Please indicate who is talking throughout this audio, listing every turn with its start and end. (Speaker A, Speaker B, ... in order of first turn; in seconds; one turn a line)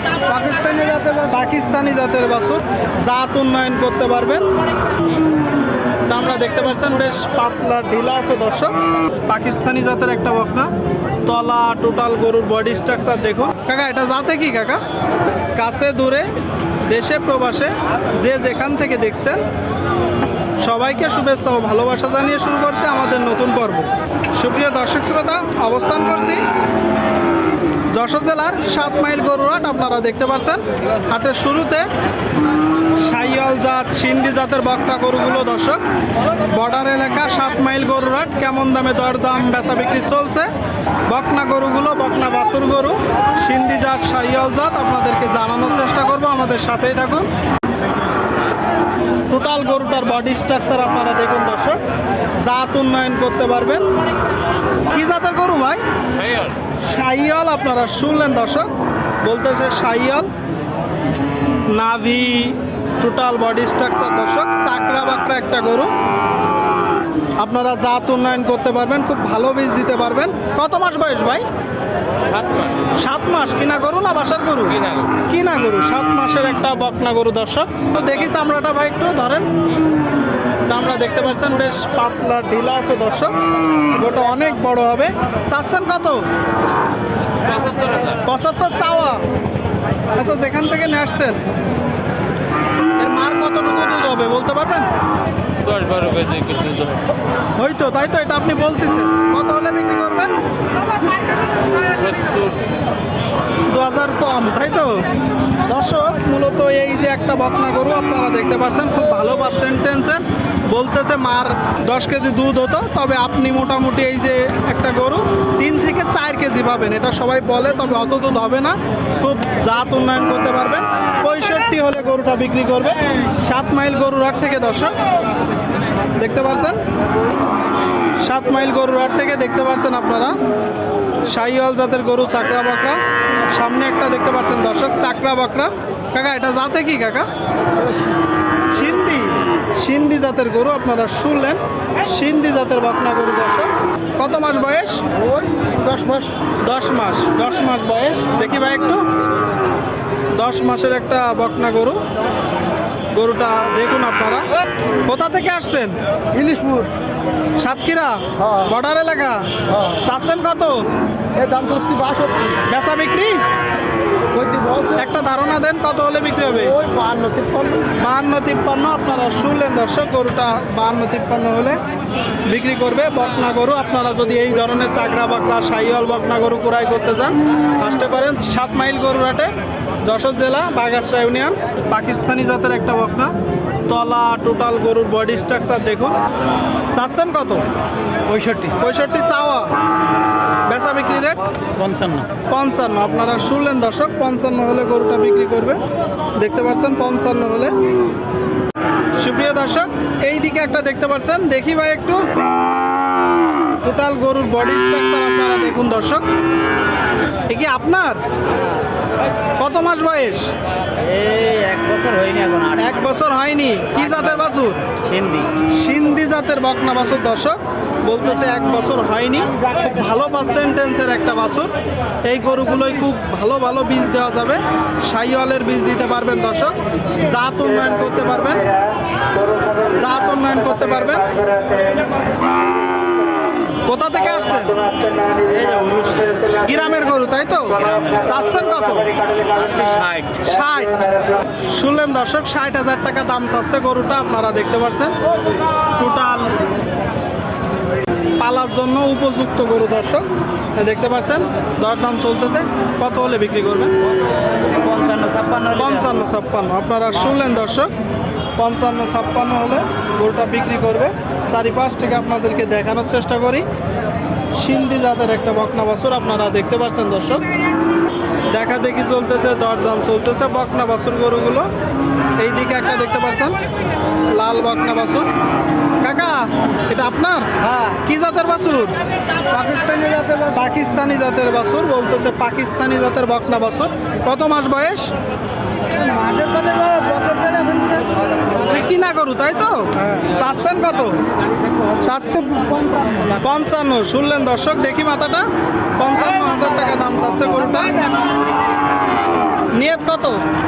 Speaker A: 0.3-1.3
Speaker B: 1.3-4.5
Speaker B: 6.1-8.8
Speaker B: 9.3-10.7
Speaker B: 11.2-14.8
Speaker B: 15.6-16.3
Speaker B: 16.9-19.4
Speaker B: 20.6-26.4
Speaker B: 27.9-31.9
Speaker B: 33.0-35.8
Speaker B: 36.5-40.5
Speaker B: 41.1-47.3
Speaker B: 49.3-51.8
Speaker B: 52.4-53.9
Speaker B: 54.9-55.8
Speaker B: 56.8-58.7
Speaker B: 59.2-60.3
Speaker B: 61.7-65.9
Speaker B: 67.4-71.5
Speaker C: 72.4-72.7
Speaker B: 73.0-79.5
Speaker B: 80.7-83.3
Speaker B: 83.9-86.2
Speaker B: 88.2-89.2
Speaker B: 90.2-91.4
Speaker B: 93.0-94.9
Speaker C: 95.6-97.0
Speaker B: 97.6-100.4
Speaker C: 102.1-102.5
Speaker B: 103.7-105.1
Speaker B: 105.7-125.0
Speaker B: 126.2-126.8
Speaker B: 128.2-130.3
Speaker B: 131.3-137.3
Speaker B: 138.7-145.0
Speaker A: 145.2-146.3
Speaker B: 146.6-149.1
Speaker B: 150.4-152.0
Speaker B: 153.2-154.4
Speaker B: 155.1-156.0
Speaker A: 156.3-156.9
Speaker B: 157.6-160.9
Speaker A: 158.4-158.7
Speaker A: 161.4-162.6
Speaker B: 162.7-163.4
Speaker A: 164.3-165.0
Speaker B: 164.9-166.8
Speaker A: 166.7-167.9
Speaker B: 168.0-171.8
Speaker B: 172.5-179.5
Speaker B: 180.1-183.3
Speaker B: 183.9-186.2
Speaker B: 186.9-187.6
Speaker A: 188.3-188.6
Speaker C: 188.3-188.6
Speaker B: 188.7-189.7
Speaker B: 190.7-191.4
Speaker A: 191.8-192.3
Speaker C: 191.8-192.2
Speaker B: 192.5-195.8
Speaker B: 196.4-197.8
Speaker B: 199.2-202.3
Speaker B: 203.8-206.3
Speaker B: 207.5-208.2
Speaker B: 209.6-210.5
Speaker A: 211.0-213.1
Speaker B: 212.8-214.9
Speaker A: 213.9-215.5
Speaker B: 215.8-221.7
Speaker B: 222.2-228.7
Speaker B: 229.9-231.6
Speaker B: 233.8-234.8
Speaker A: 235.2-236.6
Speaker B: 236.6-239.1
Speaker A: 239.4-240.4
Speaker B: 240.4-241.1
Speaker B: 241.7-245.2
Speaker B: 245.9-246.6
Speaker B: 248.4-253.9
Speaker A: 254.7-256.3
Speaker B: 255.8-257.9
Speaker B: 258.6-263.6
Speaker B: 264.6-267.4
Speaker B: 268.5-271.7
Speaker B: 272.4-273.6
Speaker B: 274.4-275.3
Speaker B: 276.0-278.9
Speaker A: 277.7-278.0
Speaker A: 279.5-280.4
Speaker B: 280.5-285.1
Speaker A: 285.9-288.2
Speaker B: 288.5-291.2
Speaker B: 292.0-292.6
Speaker A: 292.5-293.3
Speaker B: 293.3-298.1
Speaker B: 299.7-300.4